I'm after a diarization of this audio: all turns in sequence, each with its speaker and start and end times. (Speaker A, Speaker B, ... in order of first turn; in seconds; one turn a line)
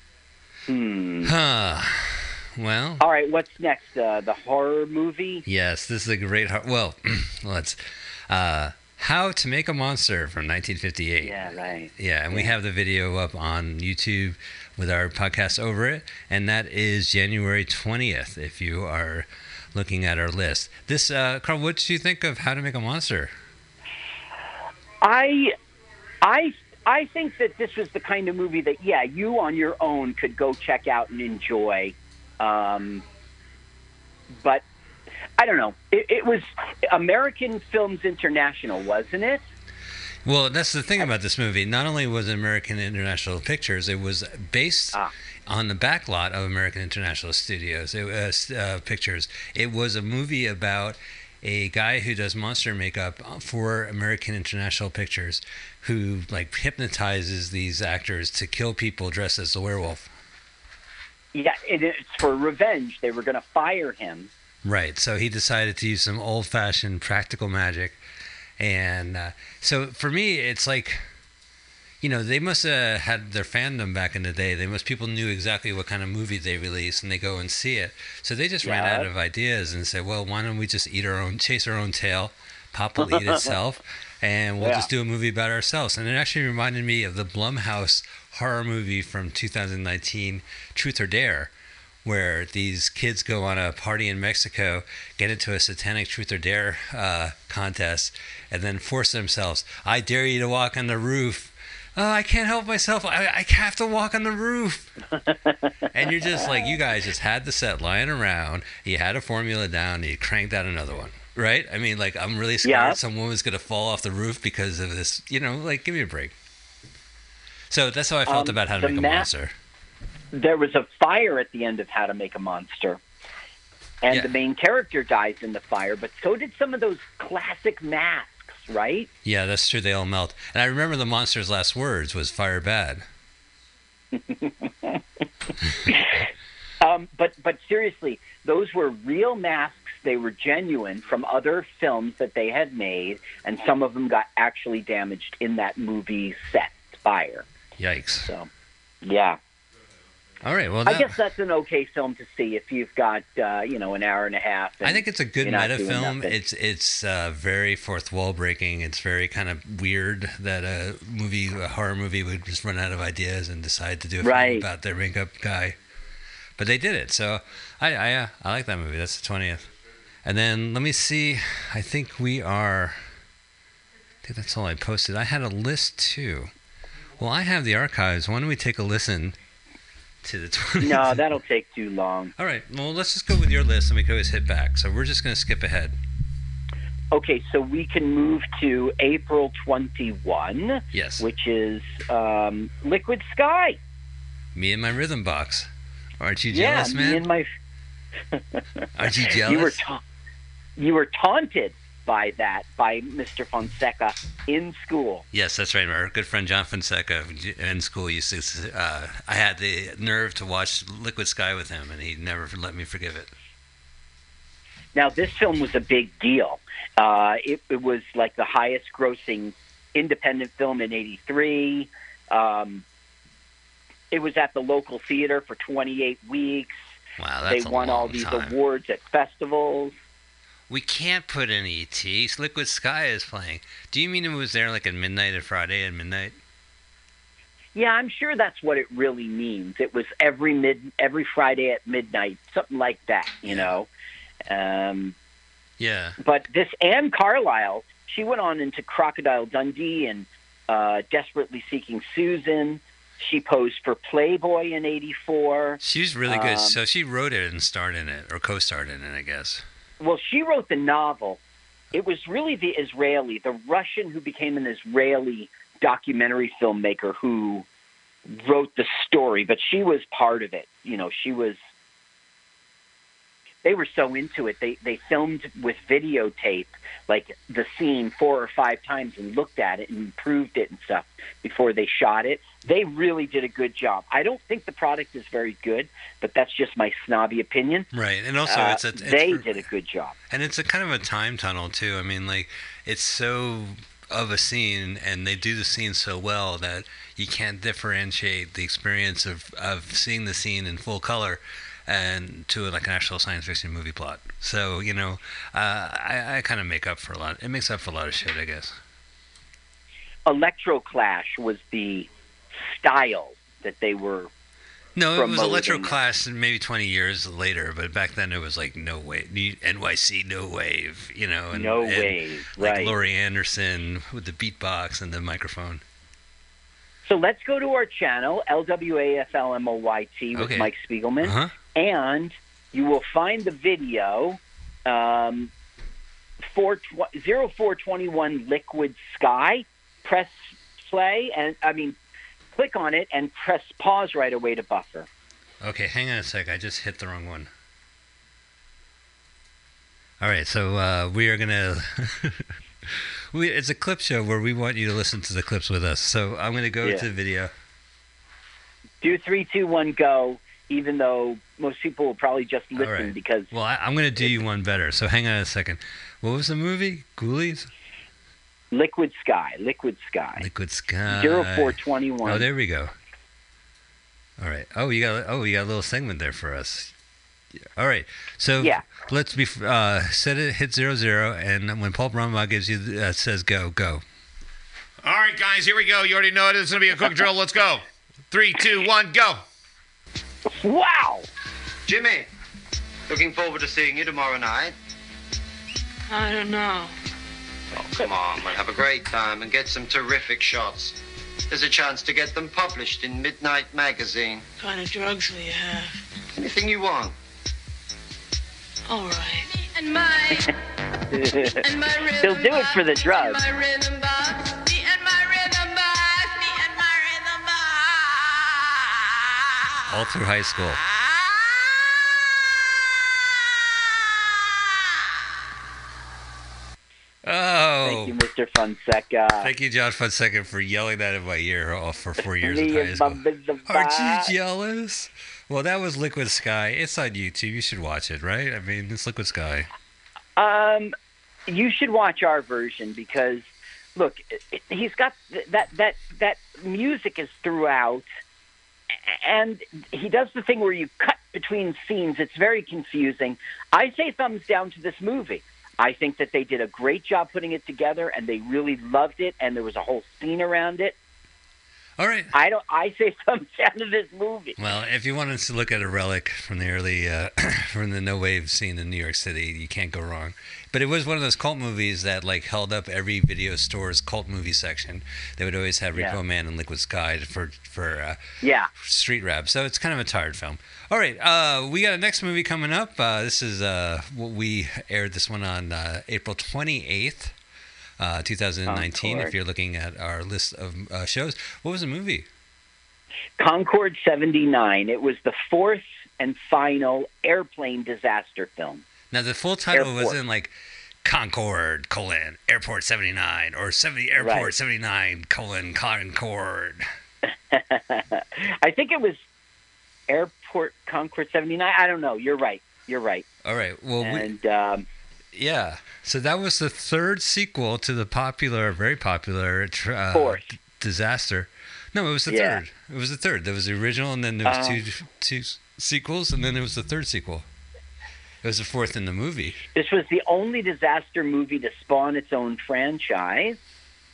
Speaker A: 0.7-1.3
Speaker B: 1.2-3.0
Speaker A: 3.0-5.4
Speaker B: 5.5-23.3
Speaker A: 11.2-12.5
Speaker A: 25.0-25.5
Speaker A: 26.2-33.0
Speaker A: 34.4-34.6
Speaker A: 35.4-39.5
Speaker B: 40.2-60.1
Speaker A: 61.3-64.3
Speaker B: 64.6-68.0
Speaker B: 68.6-71.0
Speaker B: 72.0-91.5
Speaker A: 78.6-79.1
Speaker A: 83.0-83.5
Speaker A: 84.6-84.9
Speaker B: 92.0-104.9
Speaker A: 105.3-105.6
Speaker B: 105.9-116.3
Speaker A: 112.6-113.0
Speaker B: 117.7-119.5
Speaker A: 118.3-119.3
Speaker A: 120.3-123.0
Speaker A: 124.0-129.1
Speaker B: 129.2-133.1
Speaker A: 134.1-135.0
Speaker A: 135.9-136.2
Speaker A: 136.8-147.4
Speaker B: 147.8-148.3
Speaker A: 148.2-148.5
Speaker A: 149.0-149.4
Speaker B: 150.4-151.2
Speaker A: 150.8-156.4
Speaker B: 154.8-165.8
Speaker A: 164.2-164.7
Speaker B: 166.6-169.7
Speaker B: 170.2-173.1
Speaker B: 174.2-176.5
Speaker B: 177.2-179.4
Speaker B: 180.2-181.3
Speaker A: 180.8-182.3
Speaker B: 182.4-186.0
Speaker A: 187.1-193.8
Speaker B: 190.9-191.3
Speaker B: 194.5-197.2
Speaker A: 196.5-197.5
Speaker A: 198.3-198.6
Speaker B: 198.9-199.8
Speaker A: 199.3-200.0
Speaker A: 200.8-205.2
Speaker B: 205.3-213.3
Speaker A: 214.9-222.8
Speaker A: 224.1-226.8
Speaker B: 227.2-228.5
Speaker A: 227.5-229.9
Speaker B: 230.7-236.4
Speaker A: 237.7-243.9
Speaker A: 244.5-245.1
Speaker B: 245.8-246.2
Speaker A: 246.2-256.8
Speaker B: 255.8-259.6
Speaker A: 260.0-261.4
Speaker A: 261.9-267.6
Speaker A: 268.3-271.6
Speaker A: 273.6-287.9
Speaker B: 287.9-289.5
Speaker A: 288.5-290.1
Speaker B: 290.3-308.8
Speaker A: 310.2-312.1
Speaker A: 312.6-314.3
Speaker B: 314.9-325.8
Speaker A: 315.1-316.0
Speaker A: 321.5-322.9
Speaker A: 327.0-335.5
Speaker B: 330.3-330.7
Speaker B: 331.2-331.5
Speaker A: 336.4-341.9
Speaker A: 342.5-345.1
Speaker B: 345.6-347.5
Speaker B: 350.2-357.5
Speaker A: 359.0-363.5
Speaker B: 362.8-367.7
Speaker A: 368.7-370.5
Speaker B: 370.4-372.9
Speaker A: 371.1-372.5
Speaker B: 374.4-376.9
Speaker B: 377.6-384.0
Speaker A: 378.6-378.9
Speaker C: 385.0-389.4
Speaker A: 390.5-391.3
Speaker D: 391.9-392.3
Speaker D: 393.1-394.8
Speaker E: 396.1-396.9
Speaker D: 397.8-400.9
Speaker D: 401.5-404.4
Speaker E: 404.6-406.0
Speaker D: 406.4-407.1
Speaker E: 408.9-410.5
Speaker A: 411.1-411.6
Speaker E: 411.6-418.2
Speaker A: 412.2-413.4
Speaker B: 419.9-420.8
Speaker B: 427.2-428.2
Speaker A: 427.8-429.5
Speaker B: 429.4-439.7
Speaker A: 432.4-434.3
Speaker A: 440.4-440.9
Speaker A: 441.5-443.4
Speaker A: 443.9-448.1
Speaker A: 448.9-460.9
Speaker B: 462.0-462.3
Speaker A: 462.3-464.6
Speaker B: 464.6-478.2
Speaker A: 478.4-478.7
Speaker B: 478.7-487.3
Speaker B: 488.0-492.3
Speaker A: 488.7-489.3
Speaker A: 493.4-498.8
Speaker B: 499.1-506.8
Speaker A: 499.7-500.1
Speaker A: 504.2-504.5
Speaker A: 507.5-509.2
Speaker A: 510.1-513.2
Speaker B: 513.4-514.3
Speaker A: 514.0-514.9
Speaker B: 515.3-527.5
Speaker A: 520.1-520.5
Speaker A: 522.3-522.6
Speaker A: 524.4-524.8
Speaker B: 528.4-529.6
Speaker A: 529.7-533.6